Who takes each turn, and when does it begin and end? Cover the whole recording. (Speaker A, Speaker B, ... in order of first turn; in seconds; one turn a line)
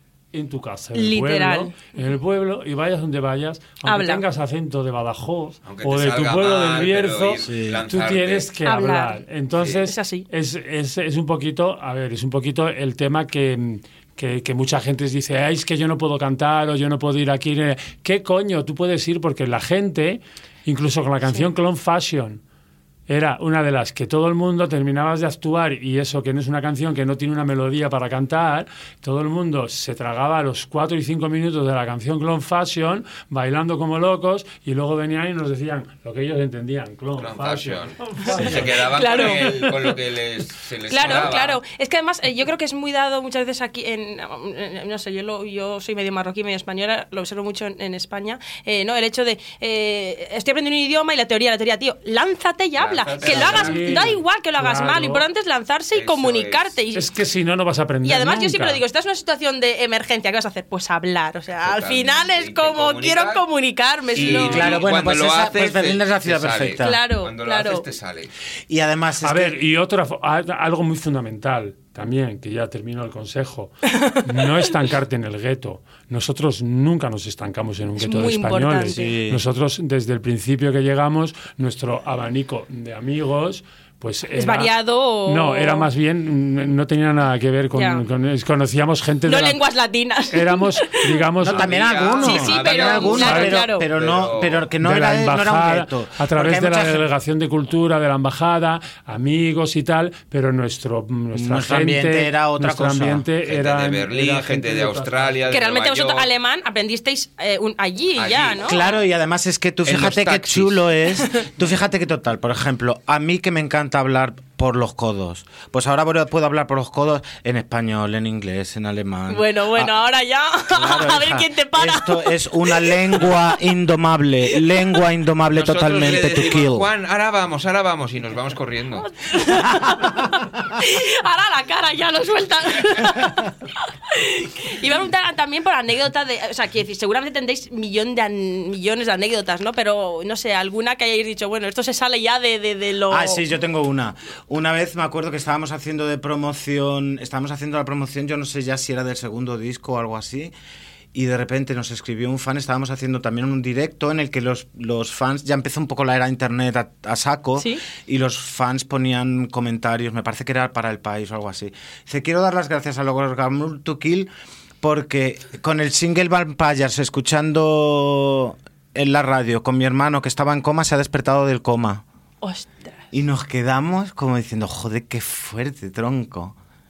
Speaker A: 0.3-22.4
Speaker B: 0.9-2.0
Speaker B: 3.9-4.2
Speaker C: 5.6-8.6
Speaker D: 7.5-7.8
Speaker B: 8.6-9.2
Speaker C: 9.6-9.8
Speaker B: 9.7-10.3
Speaker A: 23.1-38.9
Speaker C: 37.2-41.6
Speaker B: 39.0-39.7
Speaker B: 40.9-57.0
Speaker C: 52.8-54.2
Speaker A: 53.2-55.2
Speaker C: 55.9-56.8
Speaker A: 56.9-58.8
Speaker B: 58.0-64.8
Speaker C: 61.6-63.4
Speaker C: 64.1-68.3
Speaker D: 64.2-67.0
Speaker B: 66.8-67.8
Speaker D: 68.7-69.6
Speaker A: 69.2-89.6
Speaker B: 73.9-74.2
Speaker B: 78.0-79.1
Speaker D: 79.0-79.4
Speaker B: 84.3-85.9
Speaker B: 87.7-88.0
Speaker B: 89.2-91.2
Speaker A: 90.3-91.7
Speaker D: 91.4-97.0
Speaker C: 91.5-94.7
Speaker B: 92.2-93.9
Speaker A: 92.3-92.5
Speaker A: 93.2-93.6
Speaker A: 94.8-105.4
Speaker D: 101.3-103.3
Speaker C: 103.4-106.3
Speaker B: 105.5-108.8
Speaker C: 108.1-108.8
Speaker D: 108.7-120.0
Speaker C: 109.8-110.9
Speaker B: 119.3-123.0
Speaker D: 120.7-126.9
Speaker C: 125.5-129.1
Speaker B: 129.0-133.5
Speaker B: 134.1-143.4
Speaker D: 143.1-150.5
Speaker D: 151.1-164.3
Speaker B: 157.6-157.8
Speaker D: 164.8-172.0
Speaker B: 172.4-173.0
Speaker D: 173.1-176.6